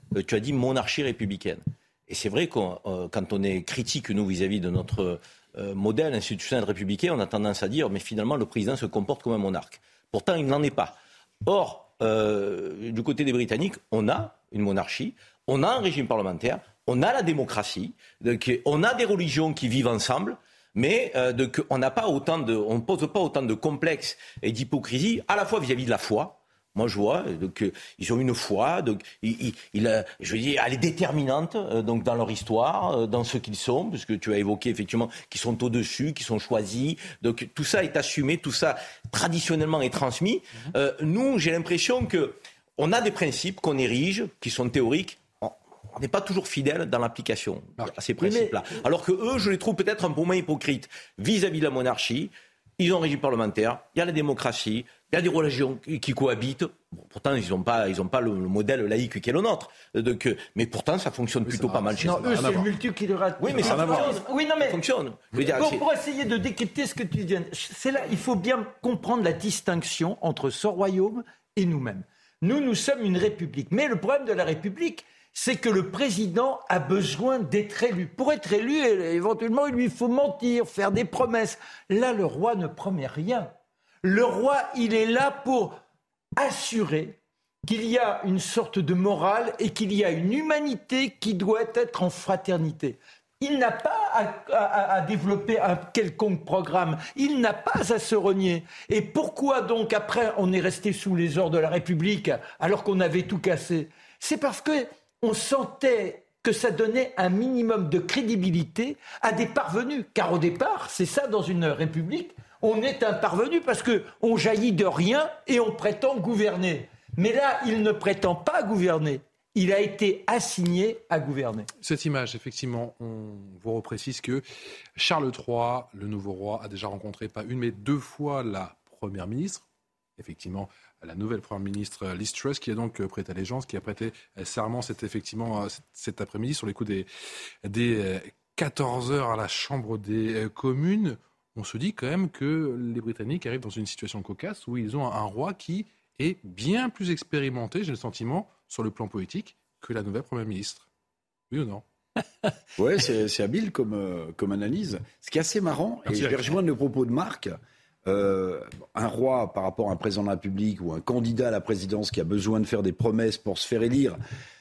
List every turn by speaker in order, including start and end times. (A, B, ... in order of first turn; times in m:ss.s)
0:00.1-1:02.6 A
0:48.2-0:48.5 B
1:01.5-1:02.7 C
1:02.0-1:04.8 B
1:03.4-1:05.8 A
1:03.5-1:04.2 C
1:05.4-1:25.8 B
1:26.4-2:01.7 B
2:01.8-2:04.4 C
2:05.0-2:09.6 C
2:10.2-2:17.1 C
2:17.6-2:30.9 C
2:31.5-2:31.8 C
2:32.8-2:44.2 D
2:36.1-2:36.6 C